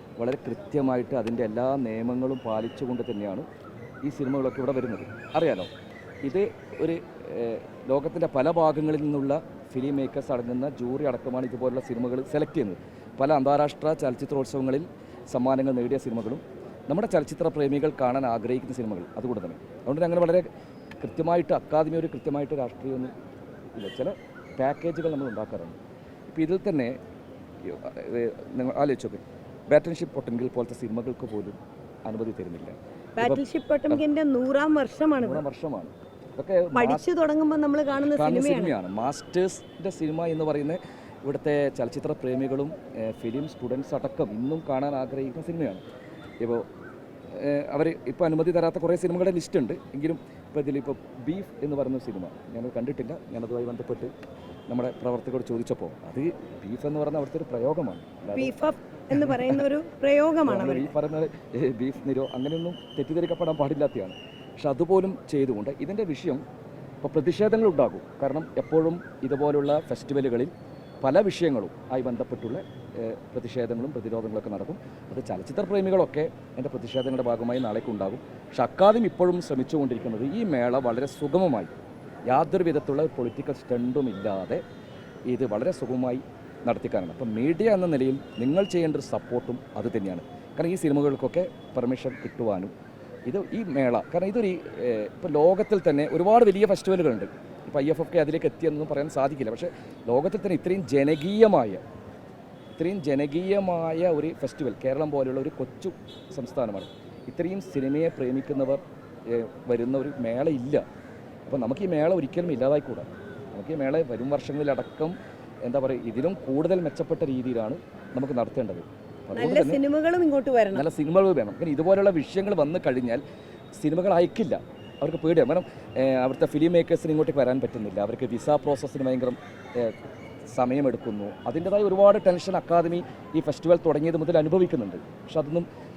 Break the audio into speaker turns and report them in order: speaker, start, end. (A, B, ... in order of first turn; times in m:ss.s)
0:00.2-0:03.4 A
0:04.0-0:05.7 A
0:06.2-0:20.4 A
0:21.0-0:23.1 A
0:23.7-0:25.8 A
0:26.3-0:26.9 A
0:27.6-0:34.0 A
0:33.2-0:35.4 B
0:35.2-0:37.0 A
0:36.7-0:38.7 B
0:38.0-0:45.8 A
0:47.3-0:54.1 A
0:54.7-0:58.5 A
0:58.3-1:00.9 B
0:59.1-0:59.6 A
1:00.4-1:06.4 A
1:07.0-1:21.7 A
1:22.3-1:24.6 A
1:25.3-1:32.7 A
1:33.3-1:41.8 A
1:42.8-1:50.8 A
1:51.5-1:59.8 A
1:59.3-2:00.8 B
2:00.7-2:03.2 A
2:03.7-2:10.0 A
2:10.5-2:15.7 A